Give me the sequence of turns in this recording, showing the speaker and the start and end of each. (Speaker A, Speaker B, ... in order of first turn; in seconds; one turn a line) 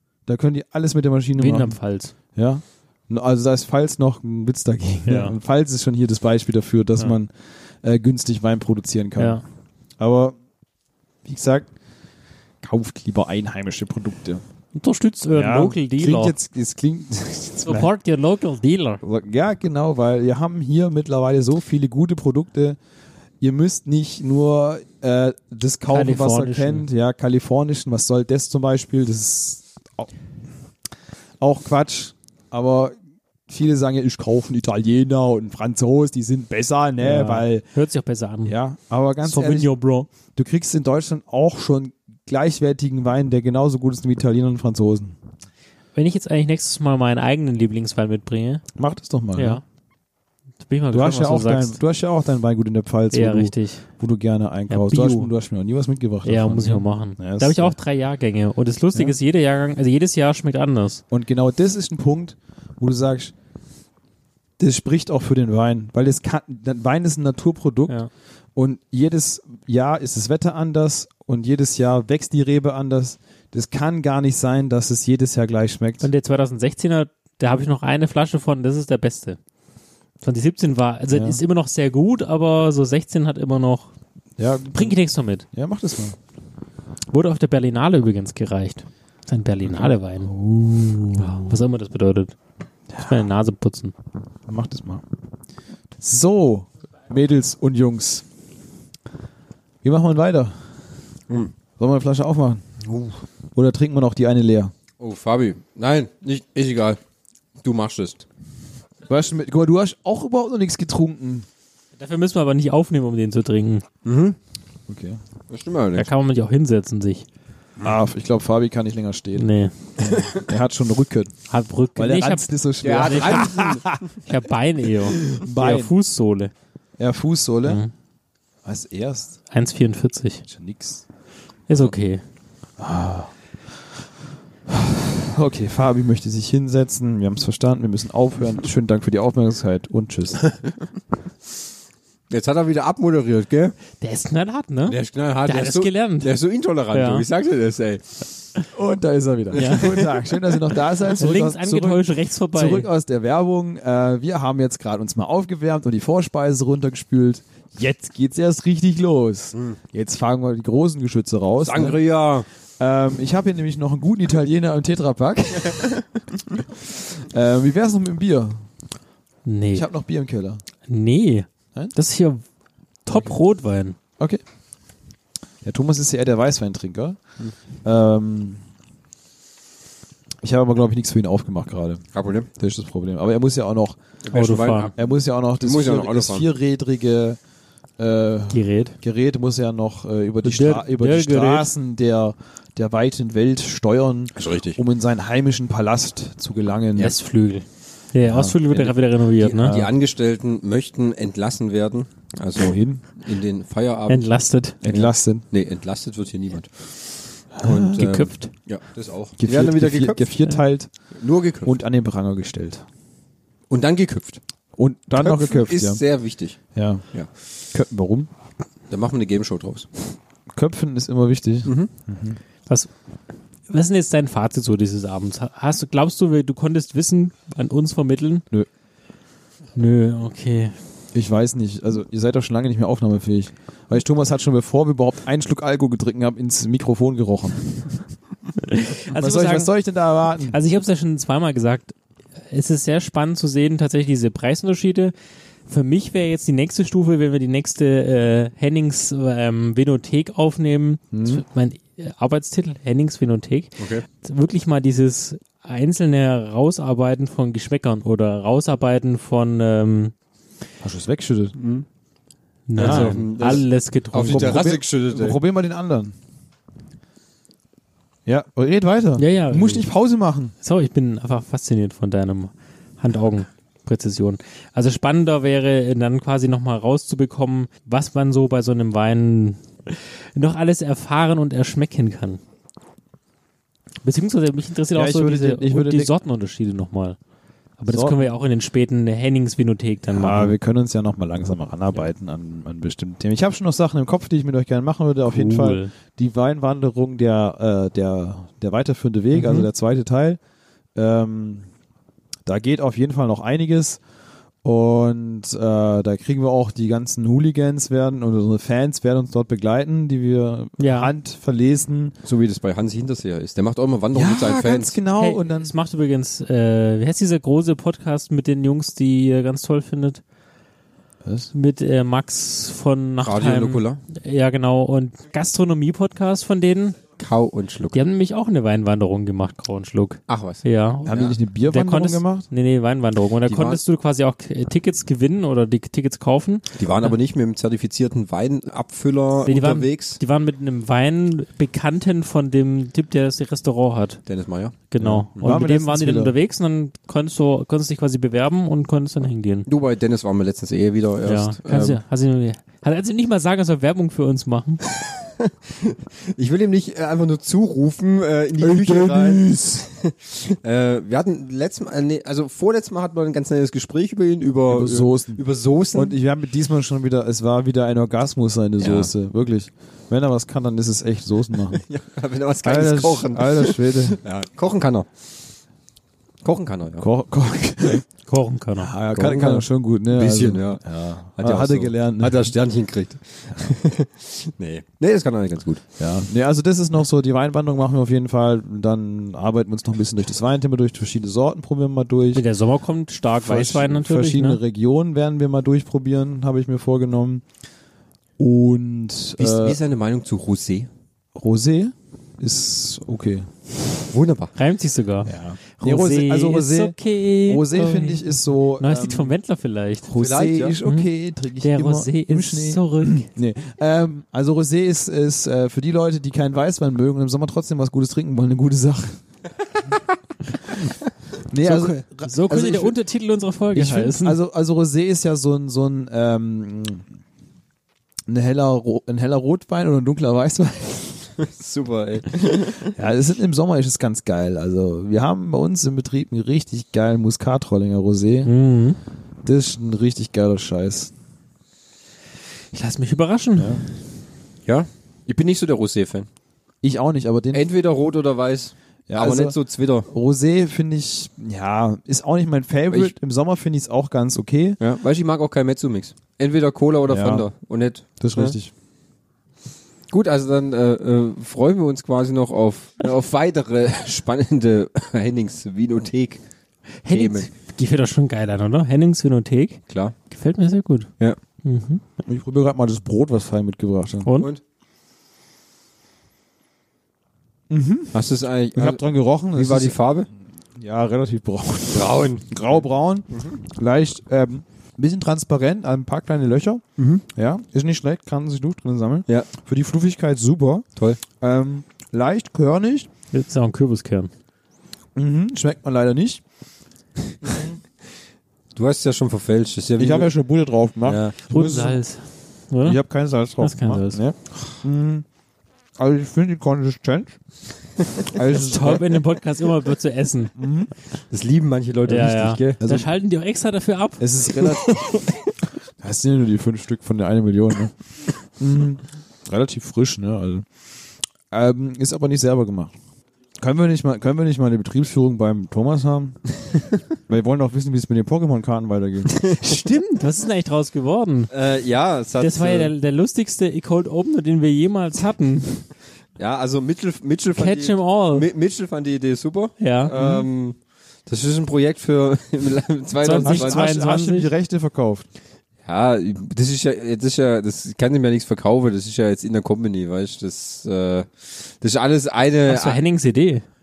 Speaker A: 0.3-1.8
Speaker B: 1.4-2.1
Speaker A: 2.4-9.4
Speaker B: 5.1-5.4
Speaker B: 9.2-9.4
Speaker A: 10.0-10.4
Speaker A: 11.2-11.7
Speaker A: 12.6-14.4
Speaker B: 14.8-16.4
Speaker A: 15.3-17.9
Speaker B: 17.6-19.0
Speaker A: 19.0-22.8
Speaker A: 23.4-30.1
Speaker B: 25.9-26.9
Speaker A: 31.4-33.0
Speaker A: 33.5-37.7
Speaker B: 37.0-38.5
Speaker A: 38.5-45.2
Speaker B: 39.2-40.1
Speaker B: 46.0-48.6
Speaker A: 48.8-49.6
Speaker B: 49.4-49.6
Speaker B: 50.6-51.8
Speaker A: 50.9-57.8
Speaker B: 53.1-53.9
Speaker B: 54.7-55.3
Speaker B: 56.2-61.0
Speaker A: 61.1-63.3
Speaker A: 64.6-68.0
Speaker A: 68.6-76.1
Speaker B: 76.0-79.4
Speaker B: 80.2-83.9
Speaker A: 81.1-81.4
Speaker A: 84.4-85.0
Speaker B: 84.7-85.5
Speaker A: 85.5-86.2
Speaker B: 87.1-90.3
Speaker A: 89.7-91.6
Speaker B: 91.2-92.3
Speaker A: 92.9-93.3
Speaker B: 93.0-93.9
Speaker A: 94.5-95.0
Speaker A: 96.0-98.2
Speaker A: 99.8-100.5
Speaker A: 101.8-102.6
Speaker C: 102.8-103.2
Speaker A: 103.5-104.7
Speaker C: 105.0-107.0
Speaker C: 107.6-108.3
Speaker A: 109.1-111.5
Speaker B: 112.0-113.9
Speaker C: 114.0-114.4
Speaker A: 114.9-115.2
Speaker C: 115.5-116.1
Speaker B: 116.0-117.3
Speaker A: 117.8-121.3
Speaker B: 119.4-119.7
Speaker C: 120.0-120.4
Speaker B: 121.5-123.5
Speaker A: 122.0-124.0
Speaker C: 122.8-124.0
Speaker B: 124.2-126.5
Speaker A: 125.2-126.0
Speaker A: 127.0-127.8
Speaker B: 127.7-127.9
Speaker A: 128.7-129.4
Speaker B: 129.5-130.4
Speaker A: 130.5-131.0
Speaker B: 131.7-132.2
Speaker A: 132.8-133.3
Speaker A: 134.7-140.5
Speaker C: 142.3-143.8
Speaker B: 144.0-146.3
Speaker C: 144.9-148.2
Speaker B: 146.9-147.3
Speaker A: 148.7-162.0
Speaker C: 149.5-150.2
Speaker B: 149.6-149.9
Speaker B: 151.1-152.9
Speaker C: 161.6-162.5
Speaker A: 162.8-166.1
Speaker A: 166.8-168.6
Speaker B: 169.4-169.9
Speaker A: 169.7-170.6
Speaker B: 170.9-172.4
Speaker B: 173.1-174.0
Speaker A: 175.6-177.2
Speaker A: 177.8-178.6
Speaker A: 180.4-182.1
Speaker C: 182.1-182.5
Speaker A: 182.6-184.0
Speaker C: 184.2-185.0
Speaker B: 184.3-184.9
Speaker A: 185.0-187.4
Speaker C: 185.6-186.5
Speaker A: 188.0-197.2
Speaker B: 188.5-189.0
Speaker B: 190.4-191.7
Speaker C: 194.4-194.8
Speaker B: 197.0-199.8
Speaker A: 198.2-199.0
Speaker C: 199.4-204.3
Speaker A: 202.6-203.0
Speaker B: 204.1-204.8
Speaker A: 204.8-205.4
Speaker C: 204.8-206.9
Speaker A: 207.6-208.1
Speaker C: 207.6-210.3
Speaker B: 207.9-208.5
Speaker A: 209.4-210.9
Speaker C: 211.2-211.8
Speaker A: 211.7-212.8
Speaker C: 213.7-214.4
Speaker A: 214.8-216.0
Speaker C: 215.2-216.6
Speaker A: 216.8-217.0
Speaker A: 217.7-218.3
Speaker C: 218.9-219.9
Speaker A: 220.5-222.4
Speaker C: 221.7-221.9
Speaker B: 223.7-228.4
Speaker B: 229.8-230.8
Speaker A: 231.1-238.0
Speaker B: 238.6-239.7
Speaker A: 239.1-240.6
Speaker B: 240.5-245.1
Speaker B: 245.7-260.1
Speaker A: 251.1-251.4
Speaker C: 253.8-254.0
Speaker A: 260.8-261.6
Speaker C: 261.6-261.9
Speaker B: 262.7-264.6
Speaker C: 262.8-265.4
Speaker A: 262.8-263.6
Speaker A: 264.2-266.1
Speaker A: 268.3-270.5
Speaker B: 269.2-269.9
Speaker B: 270.6-282.4
Speaker B: 284.0-287.2
Speaker A: 284.9-286.1
Speaker B: 287.8-290.6
Speaker A: 287.9-288.2
Speaker A: 290.1-300.4
Speaker B: 295.3-295.9
Speaker B: 299.3-299.7
Speaker A: 300.9-301.7
Speaker A: 302.5-304.0
Speaker A: 304.6-312.1
Speaker B: 310.8-311.1
Speaker C: 312.2-315.0
Speaker A: 314.1-315.7
Speaker B: 315.2-320.2
Speaker A: 321.2-321.5
Speaker B: 321.5-327.0
Speaker C: 323.2-324.0
Speaker C: 327.2-328.0
Speaker B: 327.9-336.7
Speaker C: 330.3-331.4
Speaker A: 331.1-332.5
Speaker C: 333.5-333.8
Speaker C: 336.7-340.2
Speaker B: 339.5-344.2
Speaker C: 344.3-344.8
Speaker B: 344.9-349.7
Speaker A: 345.0-346.3
Speaker C: 349.7-352.0
Speaker B: 351.2-354.8
Speaker C: 354.9-366.2
Speaker A: 358.6-359.8
Speaker A: 364.7-365.4
Speaker A: 365.9-371.8
Speaker C: 368.8-369.1
Speaker C: 371.7-375.1
Speaker A: 372.6-374.2
Speaker C: 376.4-377.1
Speaker A: 377.0-378.1
Speaker B: 378.3-378.9
Speaker A: 378.8-382.5
Speaker C: 379.1-380.8
Speaker C: 381.4-385.8
Speaker A: 386.0-392.4
Speaker B: 392.3-394.6
Speaker A: 393.4-397.4
Speaker A: 398.4-399.8
Speaker C: 399.4-400.9
Speaker A: 401.4-403.5
Speaker C: 404.1-404.5
Speaker B: 404.6-410.1
Speaker A: 405.3-409.4
Speaker A: 410.1-419.2
Speaker C: 410.1-410.8
Speaker B: 411.6-413.3
Speaker A: 421.5-422.9
Speaker B: 421.6-424.4
Speaker A: 423.7-427.1
Speaker A: 428.3-431.4
Speaker C: 431.4-432.9
Speaker A: 432.9-438.5
Speaker B: 438.4-439.0
Speaker A: 439.4-441.1
Speaker B: 442.7-443.9
Speaker A: 443.6-443.8
Speaker C: 444.7-446.3
Speaker A: 446.8-447.7
Speaker C: 447.5-450.1
Speaker A: 449.1-449.6
Speaker A: 450.1-454.8
Speaker C: 454.8-458.6
Speaker A: 457.1-457.5
Speaker A: 458.2-458.7
Speaker C: 460.1-466.4
Speaker B: 467.0-471.1
Speaker C: 467.1-467.5
Speaker C: 469.9-470.1
Speaker B: 471.6-472.0
Speaker A: 472.2-474.3
Speaker B: 474.2-474.5
Speaker A: 477.7-478.2
Speaker C: 478.1-479.0
Speaker A: 478.8-480.0
Speaker C: 479.6-480.3
Speaker A: 480.8-490.9
Speaker C: 481.9-482.6
Speaker C: 483.3-483.6
Speaker C: 487.0-487.2
Speaker A: 491.4-493.1
Speaker B: 493.3-494.3
Speaker A: 495.1-496.4
Speaker A: 497.4-497.7
Speaker C: 498.8-500.3
Speaker A: 500.0-502.0
Speaker C: 501.0-501.4
Speaker B: 501.5-503.0
Speaker A: 502.8-505.3
Speaker B: 503.6-504.2
Speaker A: 506.0-507.4
Speaker A: 508.2-509.1
Speaker B: 508.7-510.6
Speaker A: 510.6-510.9
Speaker C: 511.3-512.8
Speaker B: 512.1-515.2
Speaker A: 512.8-513.1
Speaker A: 514.2-515.0
Speaker A: 516.0-517.9
Speaker A: 518.5-520.7
Speaker A: 521.5-522.9
Speaker A: 523.6-526.4
Speaker A: 527.3-529.4
Speaker B: 529.6-531.5
Speaker C: 531.5-532.9
Speaker B: 532.4-535.9
Speaker C: 536.4-540.8
Speaker B: 537.6-538.5
Speaker B: 539.8-540.1
Speaker A: 540.1-540.5
Speaker C: 541.3-543.8
Speaker B: 543.2-544.5
Speaker A: 543.4-545.3
Speaker C: 545.9-553.0
Speaker B: 552.7-553.6